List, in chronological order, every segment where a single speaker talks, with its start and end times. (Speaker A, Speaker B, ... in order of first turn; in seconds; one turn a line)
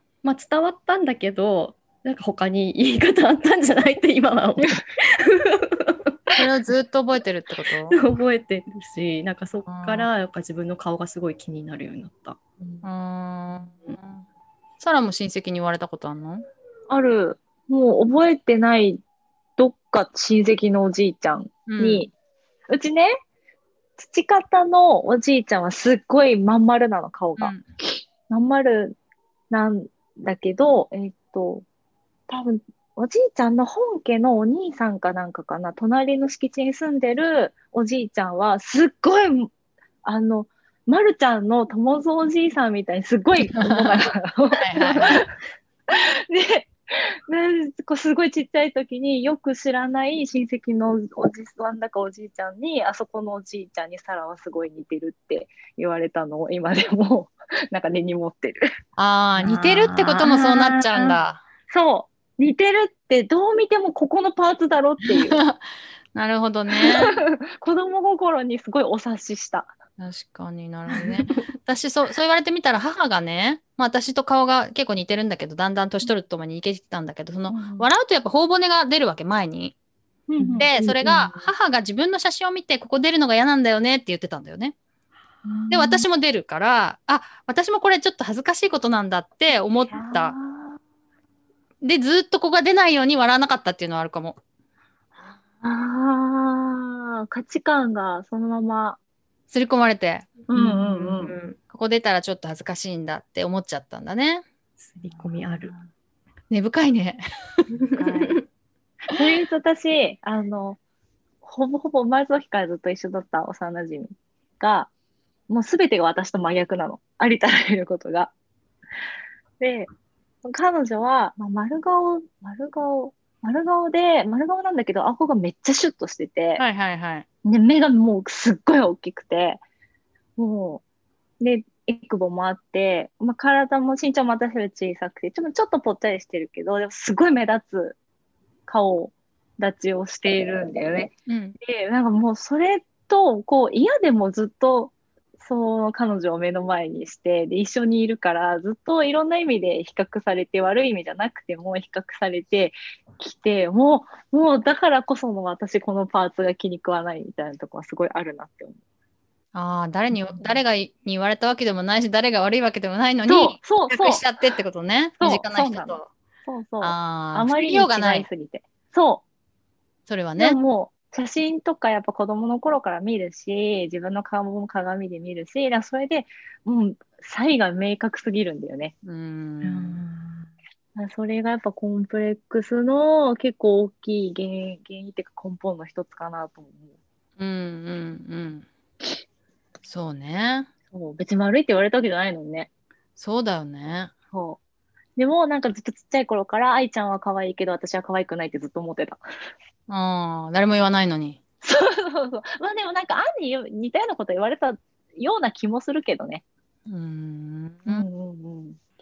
Speaker A: 0.2-6.2
Speaker B: 6.4-8.0
Speaker A: 7.9-12.4
Speaker B: 9.7-10.1
Speaker B: 12.8-14.2
Speaker B: 14.8-16.4
Speaker C: 16.9-19.0
Speaker C: 19.6-22.1
Speaker B: 21.7-22.1
Speaker C: 22.7-23.2
Speaker C: 24.0-29.0
Speaker B: 27.4-27.6
Speaker C: 29.5-31.6
Speaker C: 32.3-39.5
Speaker C: 40.0-45.3
Speaker B: 43.6-44.0
Speaker B: 44.6-45.2
Speaker C: 45.9-46.7
Speaker C: 47.3-58.7
Speaker B: 59.0-61.4
Speaker A: 59.4-60.4
Speaker C: 60.8-61.0
Speaker C: 61.7-65.4
Speaker B: 65.3-65.6
Speaker B: 66.1-67.2
Speaker C: 66.8-69.7
Speaker B: 70.0-79.8
Speaker A: 70.9-71.5
Speaker C: 77.5-77.9
Speaker C: 80.3-80.7
Speaker A: 80.4-81.5
Speaker B: 80.6-84.8
Speaker C: 85.5-86.0
Speaker B: 85.7-90.4
Speaker C: 89.9-90.8
Speaker B: 91.8-94.4
Speaker C: 95.3-99.0
Speaker B: 99.5-100.3
Speaker C: 100.5-101.4
Speaker A: 100.5-101.6
Speaker B: 101.7-104.5
Speaker A: 104.8-105.7
Speaker C: 105.1-105.9
Speaker B: 106.5-107.2
Speaker A: 107.9-108.4
Speaker C: 108.0-108.4
Speaker C: 109.2-110.8
Speaker C: 111.4-114.9
Speaker C: 115.5-118.3
Speaker C: 119.6-119.9
Speaker C: 120.4-126.6
Speaker B: 126.6-127.3
Speaker C: 127.5-129.6
Speaker C: 130.4-130.8
Speaker C: 131.4-138.0
Speaker C: 138.7-158.8
Speaker B: 141.3-141.6
Speaker B: 159.5-166.1
Speaker C: 163.3-164.3
Speaker C: 165.2-169.2
Speaker B: 166.8-168.3
Speaker B: 170.1-170.6
Speaker C: 170.4-178.9
Speaker B: 179.0-180.0
Speaker A: 179.6-180.5
Speaker C: 180.9-186.9
Speaker B: 187.4-188.7
Speaker B: 189.8-190.7
Speaker C: 190.9-192.7
Speaker B: 193.2-194.1
Speaker C: 194.3-194.6
Speaker C: 195.2-199.2
Speaker B: 199.9-201.4
Speaker C: 201.6-206.4
Speaker B: 206.9-208.1
Speaker C: 207.9-208.8